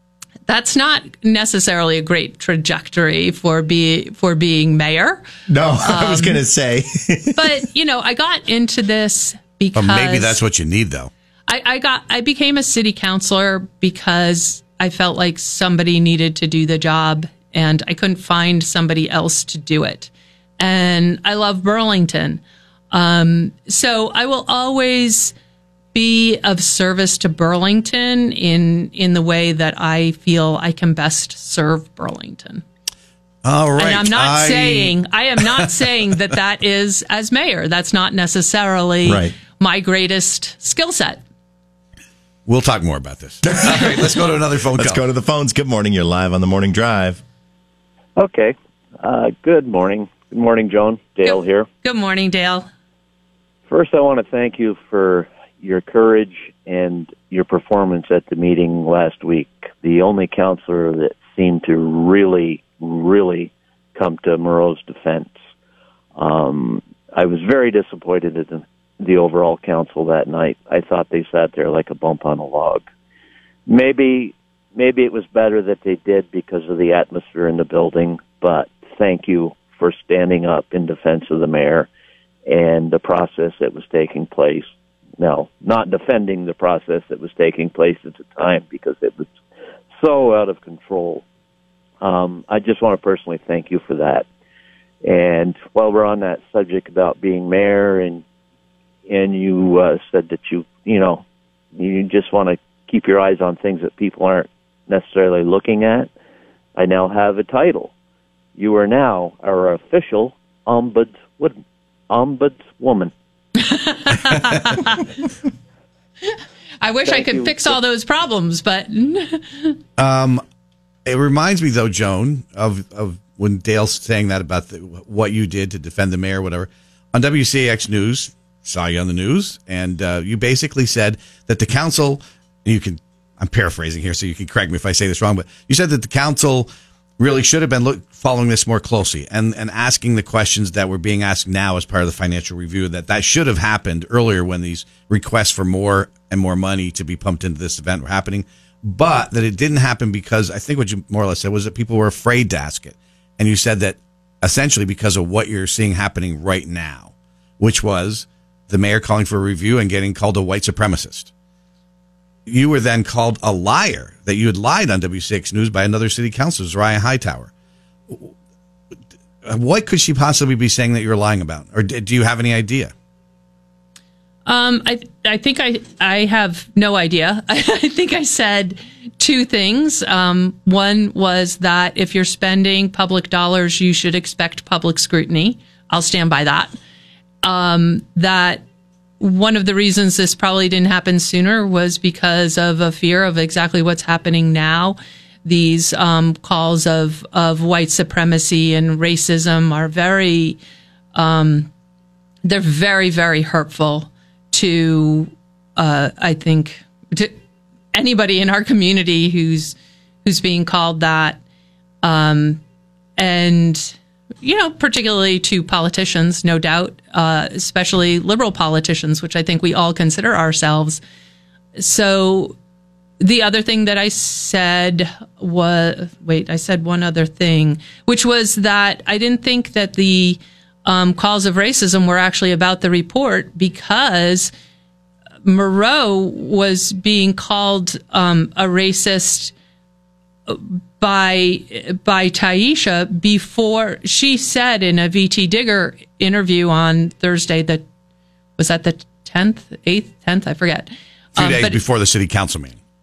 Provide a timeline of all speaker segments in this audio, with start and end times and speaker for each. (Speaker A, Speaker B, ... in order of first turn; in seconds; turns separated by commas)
Speaker A: 0.5-5.2, Speaker B: 5.5-7.6, Speaker A: 5.8-6.4, Speaker A: 7.4-10.4, Speaker C: 9.8-11.1, Speaker A: 11.5-25.3, Speaker A: 25.9-32.6, Speaker C: 33.4-35.0, Speaker A: 33.8-41.2, Speaker B: 39.0-39.4, Speaker C: 42.5-45.0, Speaker B: 43.4-44.2, Speaker B: 44.8-47.2, Speaker D: 48.2-51.7, Speaker A: 51.2-52.7, Speaker D: 53.7-65.3, Speaker D: 66.2-72.9, Speaker D: 73.7-81.9, Speaker D: 82.5-84.7, Speaker D: 85.2-89.3, Speaker D: 90.0-91.2, Speaker D: 92.0-94.3, Speaker D: 95.0-98.2, Speaker D: 99.1-101.2, Speaker D: 101.8-106.1, Speaker D: 106.8-107.9, Speaker D: 108.6-111.6, Speaker D: 112.1-113.1, Speaker A: 113.6-115.0, Speaker A: 116.8-119.8, Speaker D: 117.1-117.8, Speaker C: 120.0-120.4, Speaker C: 121.1-161.3, Speaker C: 162.5-167.5, Speaker C: 169.4-172.9, Speaker A: 174.5-186.7, Speaker A: 187.4-188.6, Speaker A: 189.2-200.6, Speaker A: 201.2-201.7, Speaker A: 202.4-207.4, Speaker A: 207.9-211.4, Speaker A: 212.0-212.6, Speaker A: 213.2-221.0, Speaker A: 221.8-222.6, Speaker A: 223.2-234.5, Speaker A: 235.4-239.5, Speaker A: 240.5-247.8, Speaker A: 248.6-251.8, Speaker C: 251.4-252.8